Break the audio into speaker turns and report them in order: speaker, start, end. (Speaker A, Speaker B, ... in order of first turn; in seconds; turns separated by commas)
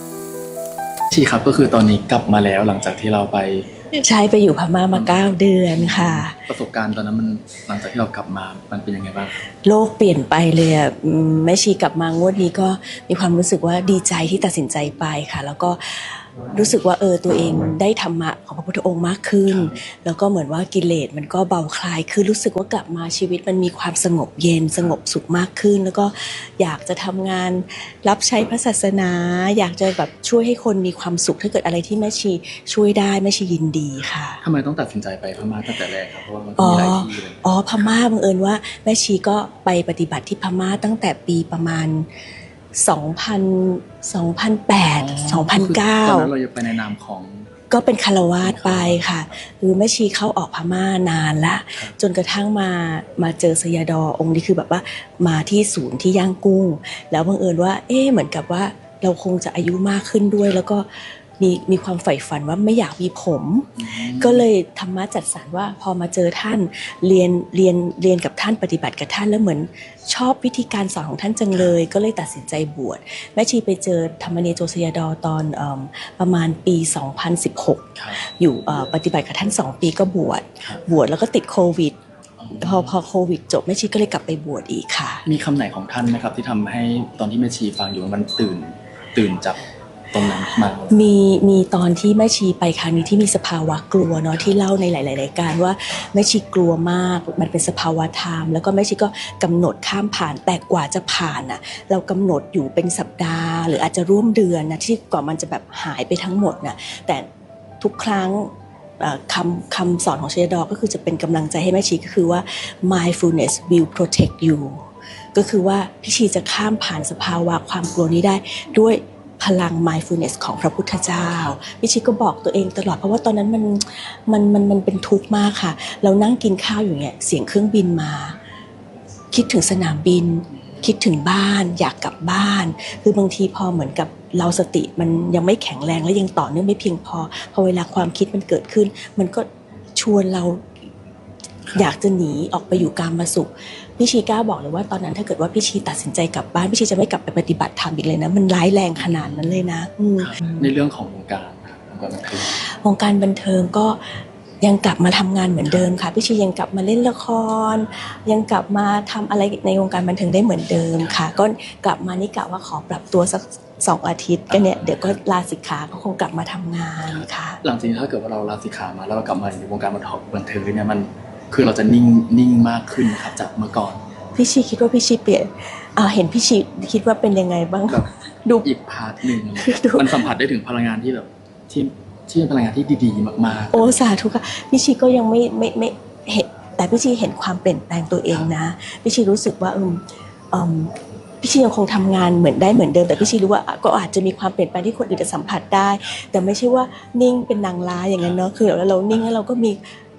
Speaker A: 1.1-3.7, Speaker B: 3.9-6.4, Speaker A: 4.9-9.4, Speaker B: 9.6-34.4, Speaker A: 19.4-19.8, Speaker A: 34.4-38.0, Speaker B: 36.6-42.1, Speaker B: 42.8-46.3, Speaker A: 44.9-47.5, Speaker B: 47.7-82.0, Speaker A: 48.4-49.1, Speaker A: 63.8-64.4, Speaker A: 82.4-82.9, Speaker B: 82.5-85.2, Speaker A: 85.2-89.6, Speaker A: 90.1-90.9, Speaker B: 90.9-107.3, Speaker B: 107.8-128.4, Speaker B: 129.3-140.7, Speaker B: 141.7-150.6, Speaker A: 148.9-149.6, Speaker A: 150.2-152.6, Speaker B: 152.4-167.6, Speaker A: 160.9-161.4, Speaker A: 164.5-165.2, Speaker A: 167.1-174.1, Speaker B: 174.3-178.7, Speaker A: 178.6-184.0, Speaker B: 179.5-180.3, Speaker B: 183.7-199.8